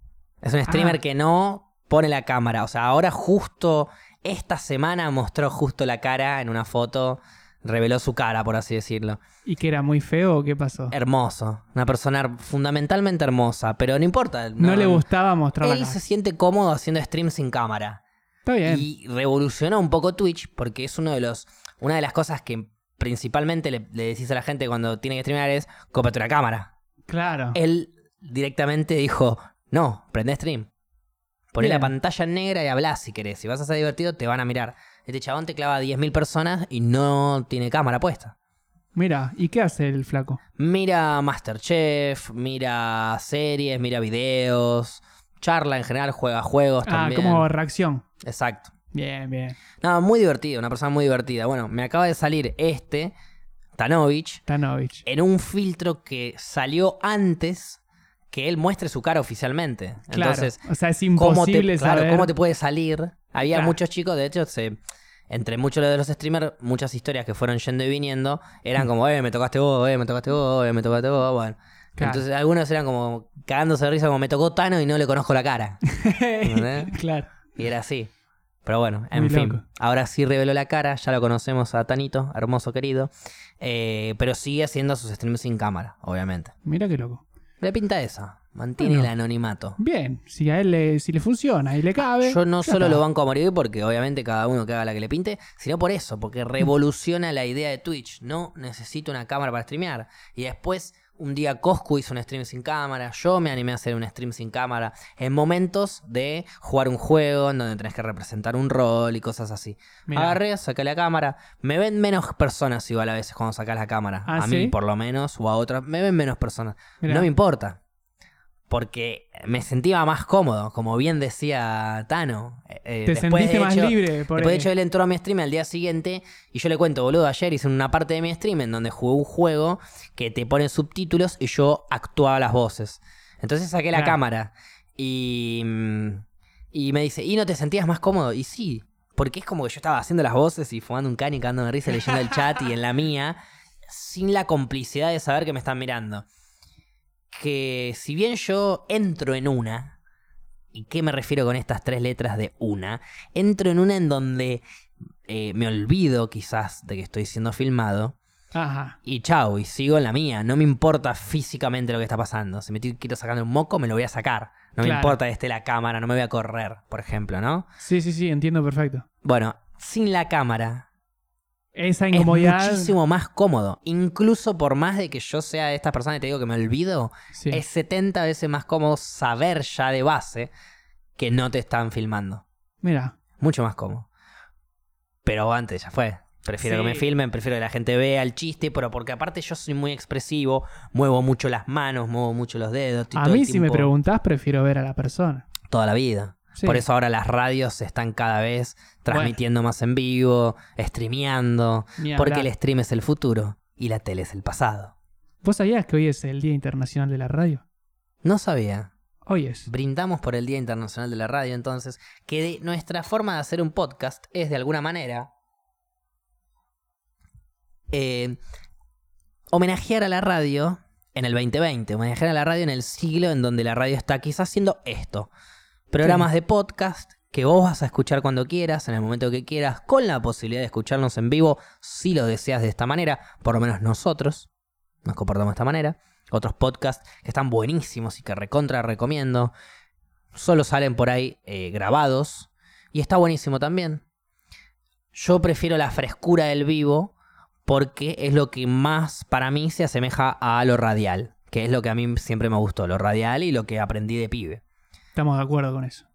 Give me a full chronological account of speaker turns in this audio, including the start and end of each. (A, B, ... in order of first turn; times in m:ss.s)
0:00.4-0:09.2 A
0:00.7-0:01.0 B
0:09.4-0:10.9 B
0:10.9-0:15.0 A
0:14.6-0:16.0 B
0:15.6-0:18.0 A
0:18.4-0:18.8 B
0:18.6-0:26.7 A
0:27.1-0:27.6 B
0:27.5-0:30.7 A
0:31.5-0:38.3 A
0:31.6-0:31.9 B
0:38.9-0:40.4 B
0:40.6-0:47.5 A
0:46.8-0:48.0 B
0:48.2-0:48.7 A
0:48.9-0:49.6 B
0:49.8-0:53.1 A
0:53.8-0:54.4 A
0:54.5-0:55.0 B
0:55.0-1:00.6 A
1:00.1-1:02.3 B
1:01.1-1:04.8 A
1:03.5-1:03.8 B
1:05.3-1:15.8 A
1:12.0-1:12.2 B
1:15.9-1:17.3 B
1:16.4-1:17.0 A
1:17.5-1:18.1 A
1:18.6-1:26.5 A
1:19.1-1:19.6 B
1:26.6-1:27.2 B
1:27.6-1:29.8 A
1:28.8-1:29.1 B
1:29.8-1:33.0 B
1:32.2-1:57.8 A
1:50.1-1:50.4 B
1:54.2-1:54.7 B
1:57.0-1:57.3 B
1:58.7-2:23.4 A
2:03.0-2:04.7 B
2:13.9-2:14.2 B
2:22.1-2:22.4 B
2:23.9-2:26.2 A
2:27.3-2:30.0 A
2:30.7-2:34.6 A
2:35.3-2:38.2 A
2:38.5-2:39.0 B
2:39.0-2:47.7 A
2:44.8-2:45.2 B
2:47.8-2:49.0 B
2:49.2-2:50.9 A
2:51.7-2:52.9 B
2:52.1-3:00.5 A
2:57.3-2:57.6 B
3:01.2-3:02.4 A
3:02.8-3:03.1 B
3:03.4-3:04.1 A
3:05.2-3:13.9 A
3:06.6-3:07.0 B
3:13.1-3:15.4 B
3:15.7-3:24.9 A
3:16.5-3:16.8 B
3:19.1-3:19.4 B
3:22.0-3:22.5 B
3:25.4-3:27.6 B
3:28.2-3:28.9 A
3:29.2-3:29.7 B
3:29.7-3:35.3 A
3:37.9-3:38.4 A
3:39.5-3:45.3 A
3:45.9-3:54.5 A
3:46.0-3:46.3 B
3:55.0-3:59.5 A
4:00.3-4:04.0 A
4:05.1-4:07.1 A
4:07.7-4:14.6 A
4:15.1-4:16.0 B